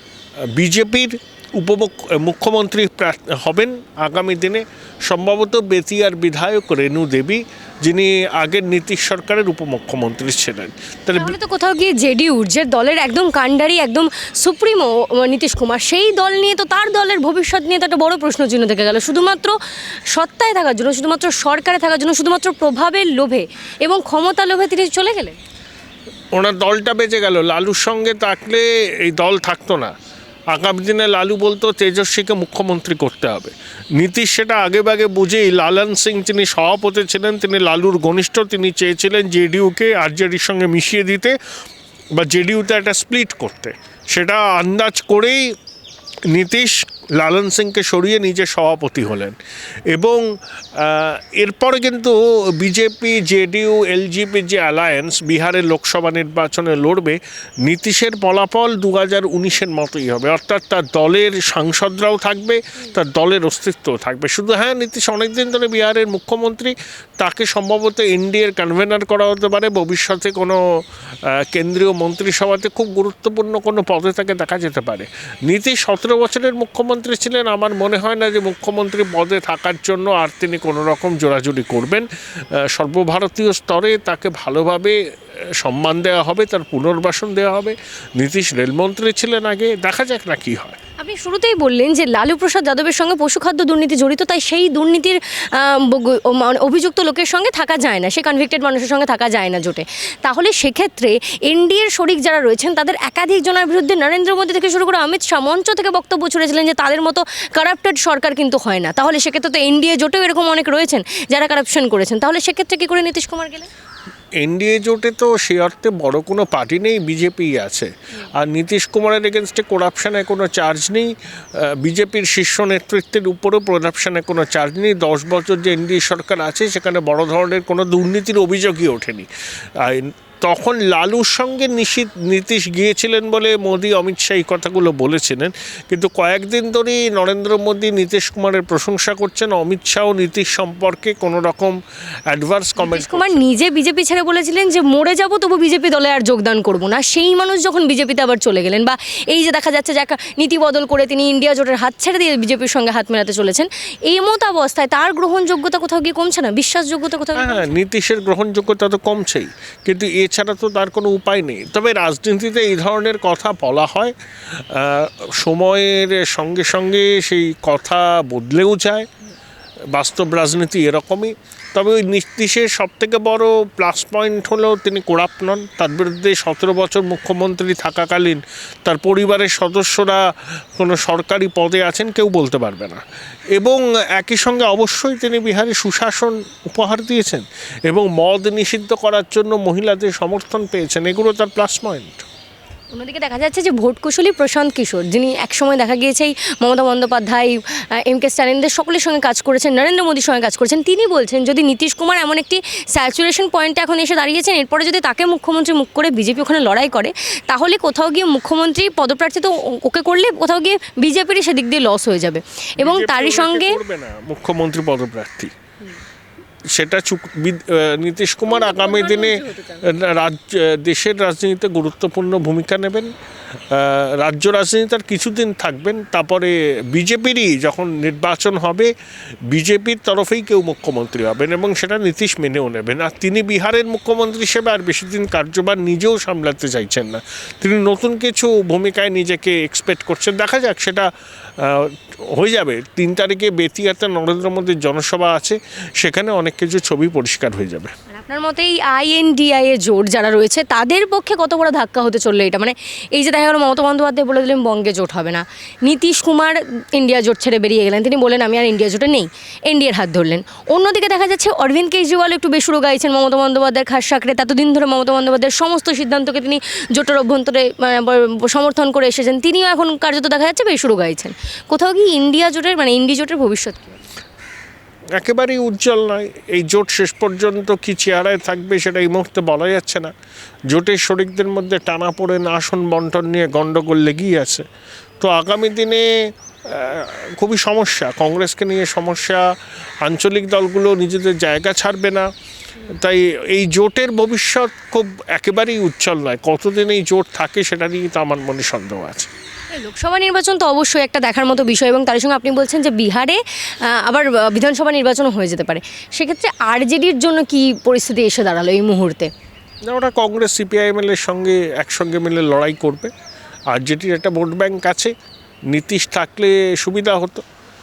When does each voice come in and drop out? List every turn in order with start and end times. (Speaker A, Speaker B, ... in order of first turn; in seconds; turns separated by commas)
Speaker A: 0.5-11.3, Speaker B: 11.2-19.6, Speaker B: 20.1-25.4, Speaker A: 26.3-29.9, Speaker A: 30.5-41.4, Speaker A: 42.1-45.5, Speaker A: 46.3-49.4, Speaker A: 49.9-70.6, Speaker A: 71.2-85.0, Speaker A: 85.6-90.8, Speaker B: 91.0-113.7, Speaker A: 114.4-129.3, Speaker A: 129.8-141.8, Speaker A: 142.3-143.5, Speaker B: 142.8-157.7, Speaker A: 157.3-169.1, Speaker A: 169.9-183.0, Speaker A: 183.5-192.2, Speaker B: 192.9-213.8, Speaker A: 212.8-215.5, Speaker A: 216.7-223.1, Speaker B: 218.5-219.8, Speaker A: 223.7-228.9, Speaker A: 229.5-247.9, Speaker B: 248.1-274.0, Speaker A: 275.2-280.1, Speaker A: 280.7-284.6, Speaker A: 285.2-286.1, Speaker A: 286.6-289.4, Speaker A: 290.0-292.3, Speaker A: 292.9-299.3, Speaker B: 299.7-309.3, Speaker A: 309.9-313.1, Speaker A: 313.7-315.1, Speaker A: 315.7-317.4